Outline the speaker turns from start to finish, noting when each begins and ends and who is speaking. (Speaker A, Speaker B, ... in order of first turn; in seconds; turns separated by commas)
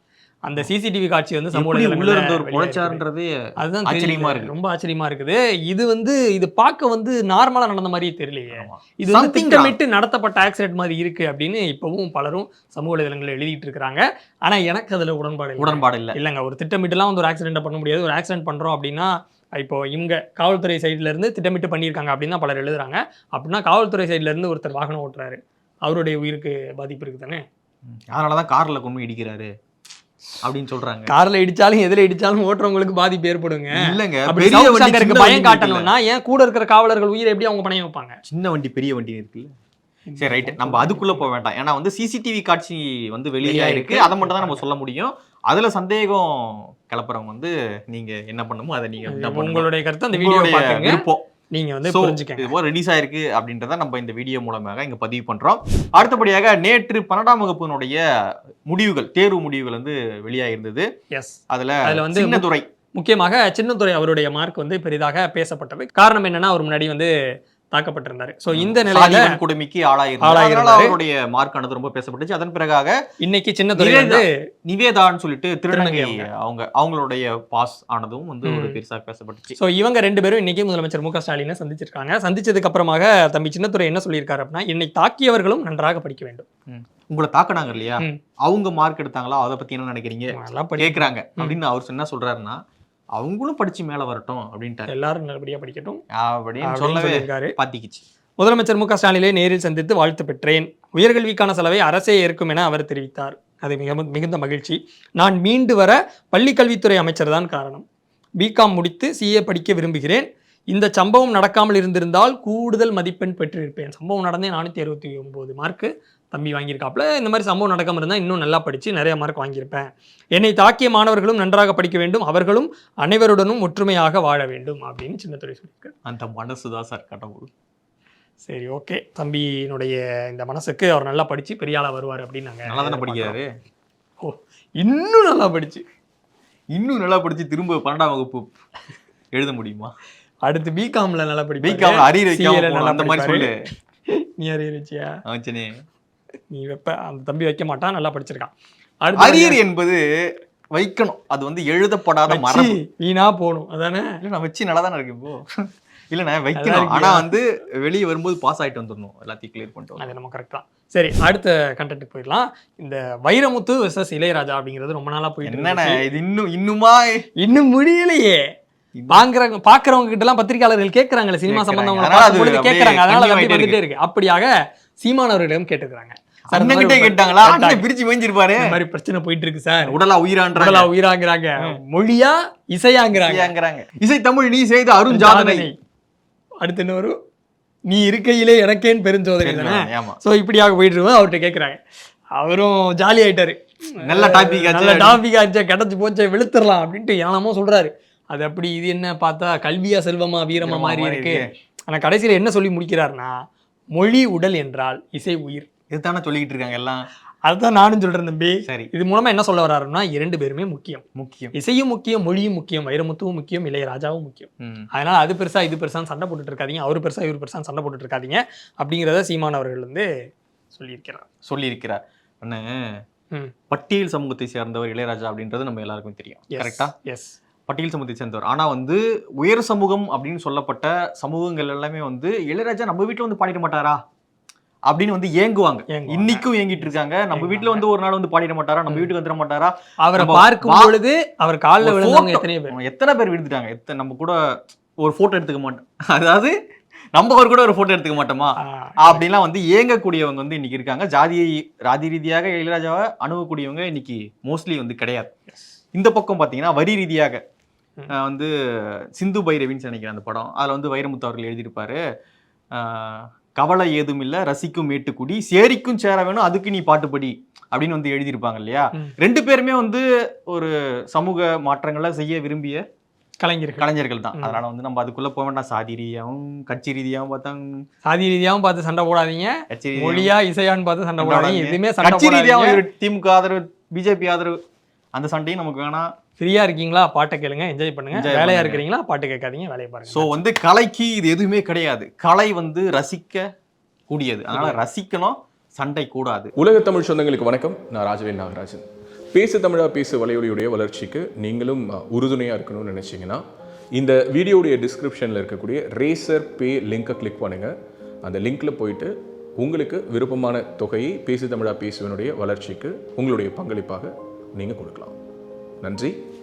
Speaker A: 0.5-3.0, Speaker B: 1.5-3.3, Speaker A: 3.6-27.4, Speaker B: 3.9-4.5, Speaker B: 8.5-9.7, Speaker B: 15.6-16.1, Speaker B: 27.9-29.5, Speaker B: 30.4-31.1, Speaker A: 31.1-33.8, Speaker B: 33.8-35.9, Speaker A: 34.3-38.2, Speaker B: 38.2-39.5, Speaker A: 40.1-41.3, Speaker B: 40.2-51.2, Speaker A: 43.4-44.6, Speaker A: 49.0-52.5, Speaker B: 51.9-58.0, Speaker B: 58.7-60.9, Speaker A: 61.1-67.1, Speaker B: 61.5-62.6, Speaker A: 67.7-69.3, Speaker B: 68.5-72.9, Speaker A: 70.2-71.0, Speaker A: 73.2-74.2, Speaker B: 73.8-79.5, Speaker A: 75.7-76.3, Speaker A: 78.4-78.8, Speaker A: 79.6-86.4, Speaker B: 86.7-92.6, Speaker A: 90.3-91.6, Speaker B: 93.2-94.9, Speaker A: 94.9-96.0, Speaker B: 96.2-98.0, Speaker A: 96.6-97.5, Speaker A: 98.4-107.8, Speaker A: 108.4-125.9, Speaker B: 126.0-127.5, Speaker A: 128.4-133.4, Speaker B: 132.7-133.4, Speaker A: 134.2-135.8, Speaker B: 136.7-138.5, Speaker B: 139.3-139.9, Speaker A: 140.4-143.5, Speaker B: 141.6-143.5, Speaker A: 144.4-145.1, Speaker B: 145.3-145.7, Speaker A: 146.5-148.5, Speaker A: 149.0-149.6, Speaker B: 149.2-150.0, Speaker B: 150.7-152.8, Speaker A: 152.3-154.2, Speaker B: 154.2-155.4, Speaker B: 156.1-160.0, Speaker A: 156.6-157.2, Speaker A: 160.0-166.0, Speaker B: 165.4-167.2, Speaker A: 167.4-168.4, Speaker B: 168.9-169.2, Speaker A: 169.1-174.5, Speaker B: 171.5-173.8, Speaker A: 175.0-177.8, Speaker B: 176.5-178.8, Speaker A: 178.6-179.9, Speaker B: 179.8-180.9, Speaker A: 180.5-183.5, Speaker B: 183.1-185.7, Speaker A: 185.1-185.7, Speaker A: 186.6-187.1, Speaker A: 187.9-191.8, Speaker B: 189.4-190.2, Speaker A: 192.4-203.3, Speaker B: 194.0-195.2, Speaker B: 200.6-201.5, Speaker A: 203.9-205.7, Speaker B: 205.9-207.0, Speaker A: 207.4-220.1, Speaker B: 211.2-211.5, Speaker B: 214.6-214.8, Speaker A: 220.7-221.2, Speaker B: 221.4-222.8, Speaker B: 223.7-226.9, Speaker A: 226.5-227.3, Speaker B: 227.7-234.0, Speaker B: 234.9-240.9, Speaker A: 235.9-237.8, Speaker A: 240.0-242.7, Speaker B: 241.8-244.3, Speaker B: 245.0-246.5, Speaker B: 247.1-255.3, Speaker A: 248.6-249.2, Speaker B: 255.9-257.4, Speaker B: 258.1-258.5, Speaker B: 259.2-262.0, Speaker B: 262.7-272.8, Speaker A: 273.4-274.6, Speaker B: 273.8-277.7, Speaker A: 278.1-282.8, Speaker B: 279.7-280.3, Speaker B: 281.2-284.6, Speaker B: 285.1-286.1, Speaker A: 286.4-290.3, Speaker B: 288.1-288.8, Speaker B: 290.1-293.4, Speaker B: 294.1-296.5, Speaker A: 294.5-294.8, Speaker C: 296.6-303.4, Speaker C: 303.9-307.7, Speaker C: 308.2-315.1, Speaker C: 315.8-316.1